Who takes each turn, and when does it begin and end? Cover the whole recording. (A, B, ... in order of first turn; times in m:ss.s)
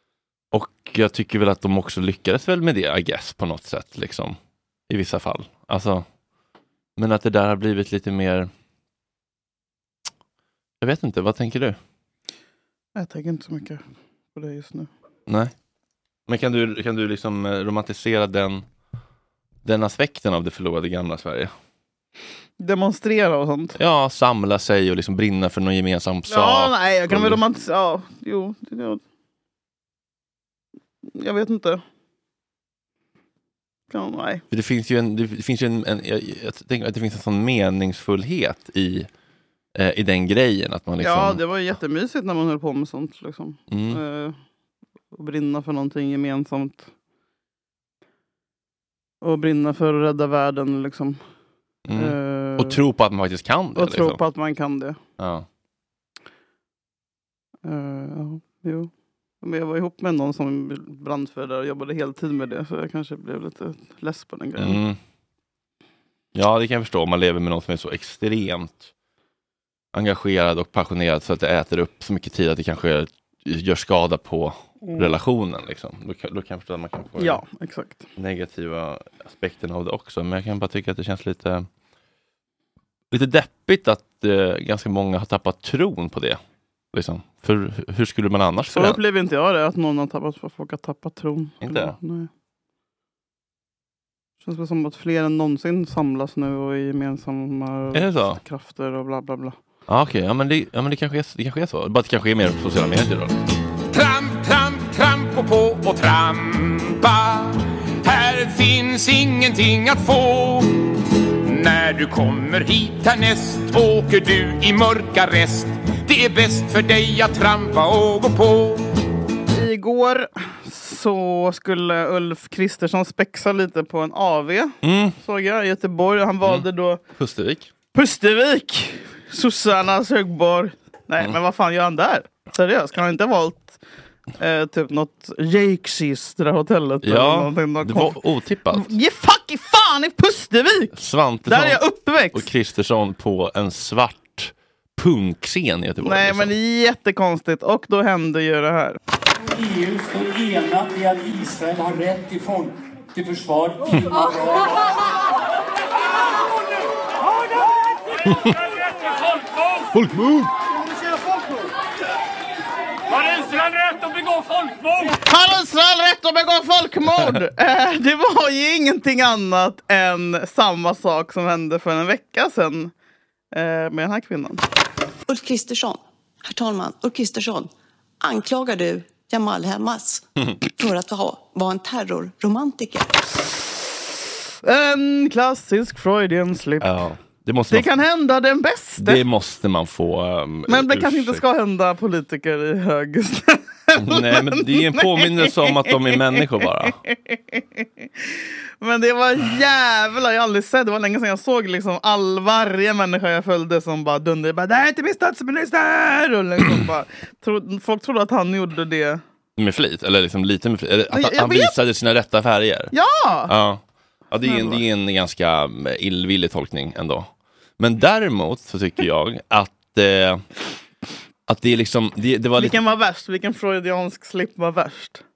0:00.5-0:04.4 A
0:04.9-0:06.0 A
0:07.0-0:08.5 A
0:10.8-0:11.8 A
0:13.0-0:13.8 B
0:14.4-0:14.9 B
0:15.3-0:15.5 A
0:16.3-0:18.6 A
0:19.6-0:21.5 A
0:22.6-0:23.8 B
0:23.8-0:27.4 A
0:26.3-0:29.0 B
0:31.1-0:31.8 B
0:33.9-0:34.4 B
0:34.5-0:39.1 A
0:39.8-0:41.4 A
0:41.0-0:44.4 B
0:43.7-0:44.0 A
0:45.1-0:46.9 B
0:49.2-0:51.2 B
0:51.9-0:54.2 A
0:52.0-0:52.8 B
0:53.8-0:55.0 B
0:55.2-0:55.5 A
0:57.6-0:58.9 B
0:59.4-1:04.8 B
1:04.6-1:05.0 A
1:06.4-1:08.9 A
1:09.9-1:17.4 A
1:14.8-1:15.1 B
1:17.2-1:18.1 B
1:18.2-1:21.7 A
1:23.1-1:26.4 A
1:26.9-1:29.0 A
1:28.7-1:32.3 B
1:31.6-1:32.0 A
1:34.4-1:39.6 B
1:37.9-1:38.4 A
1:39.9-1:43.4 A
1:43.9-1:50.9 C
1:51.4-1:58.9 C
1:59.5-2:07.0 B
2:04.8-2:05.2 A
2:06.4-2:07.7 A
2:07.9-2:13.8 B
2:14.4-2:18.2 B
2:17.0-2:18.9 A
2:18.7-2:22.5 B
2:21.0-2:21.8 A
2:22.3-2:26.5 A
2:26.0-2:29.0 B
2:29.5-2:33.9 D
2:39.9-2:40.5 A
2:45.2-2:52.9 B
2:53.5-2:54.6 B
2:55.3-2:57.7 E
2:58.2-3:03.2 E
3:04.6-3:06.9 B
3:06.8-3:07.9 A
3:07.7-3:09.2 B
3:09.0-3:11.4 A
3:10.7-3:15.9 B
3:14.0-3:17.0 A
3:17.1-3:17.8 B
3:18.8-3:29.2 B
3:29.6-3:32.9 A
3:31.1-3:31.7 B
3:32.9-3:33.5 B
3:33.5-3:40.4 A
3:34.4-3:34.8 B
3:41.5-3:42.8 A
3:42.6-3:45.2 B